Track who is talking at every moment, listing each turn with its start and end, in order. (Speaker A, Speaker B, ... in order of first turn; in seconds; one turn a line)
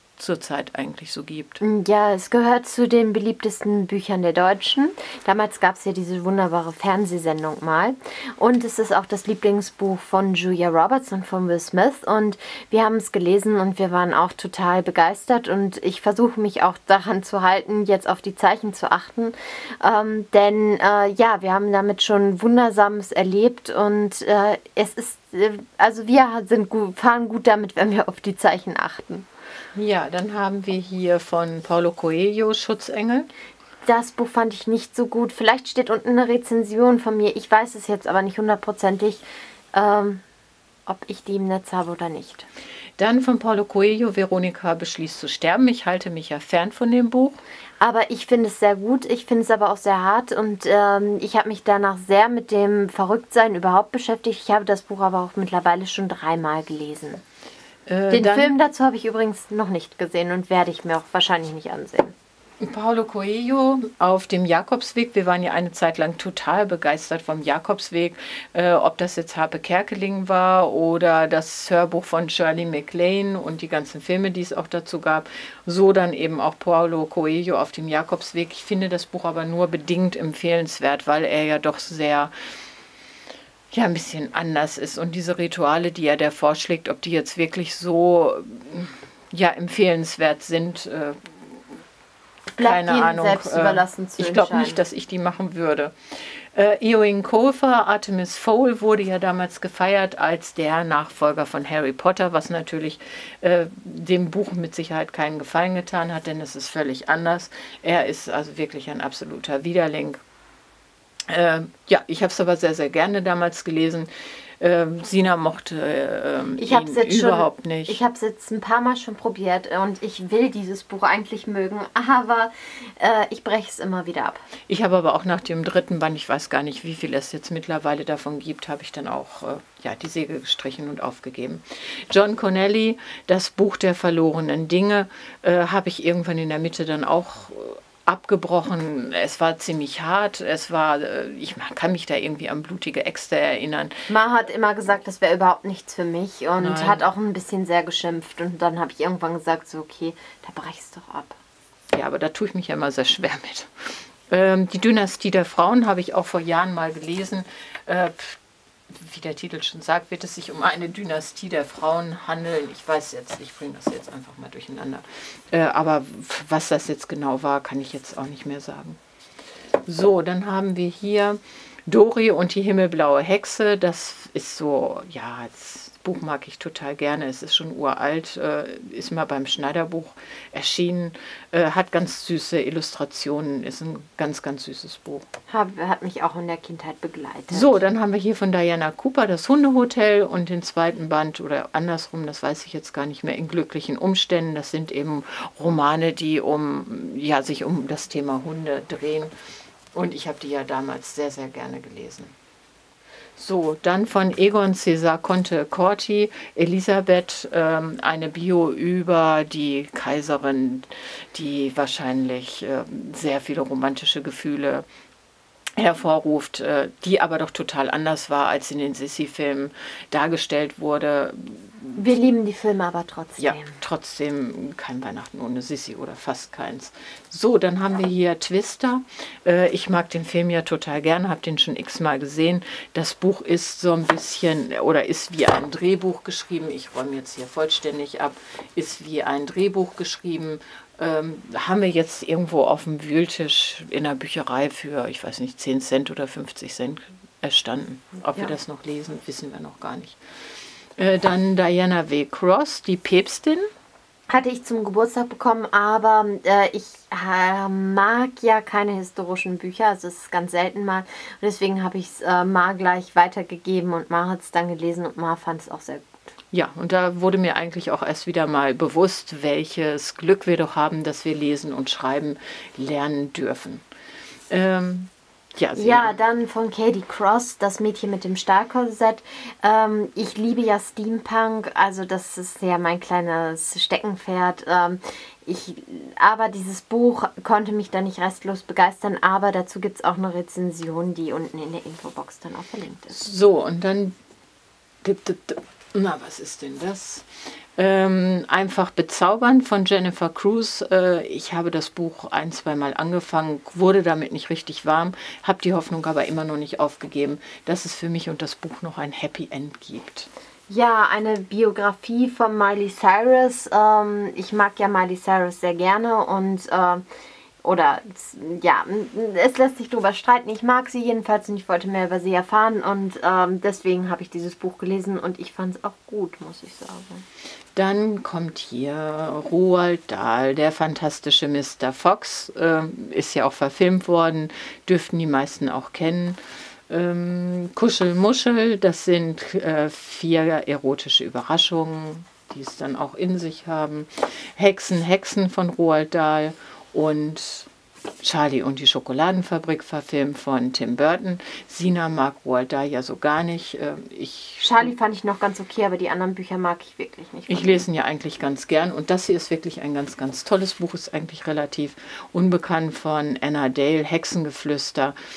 Speaker A: 0.2-1.6
Speaker B: 1.6-29.3
Speaker A: 29.8-33.3
Speaker B: 33.9-40.2
Speaker B: 40.9-42.5
Speaker A: 43.0-47.4
Speaker B: 47.8-57.2
Speaker A: 57.9-58.5
Speaker B: 58.1-62.1
Speaker A: 62.6-82.3
Speaker A: 83.7-91.3
Speaker B: 92.6-94.8
Speaker A: 92.6-110.2
Speaker A: 111.3-114.1
Speaker A: 114.6-118.0
Speaker B: 116.6-124.4
Speaker A: 124.7-143.9
Speaker B: 144.1-151.4
Speaker A: 146.6-147.0
Speaker A: 151.9-158.4
Speaker A: 158.9-169.0
Speaker A: 169.8-185.3
Speaker B: 185.5-187.8
Speaker A: 187.5-199.3
Speaker A: 199.9-202.3
Speaker A: 203.4-214.9
Speaker A: 215.8-222.1
Speaker B: 222.0-223.8
Speaker A: 223.4-250.2
Speaker A: 251.0-253.7
Speaker B: 254.3-266.3
Speaker A: 266.5-273.8
Speaker A: 274.5-276.1
Speaker B: 275.8-293.2
Speaker A: 293.1-294.1
Speaker A: 295.0-310.3
Speaker B: 310.7-317.0
Speaker B: 317.6-327.2
Speaker A: 327.8-347.7
Speaker A: 348.2-354.9
Speaker B: 354.6-357.8
Speaker A: 357.5-365.1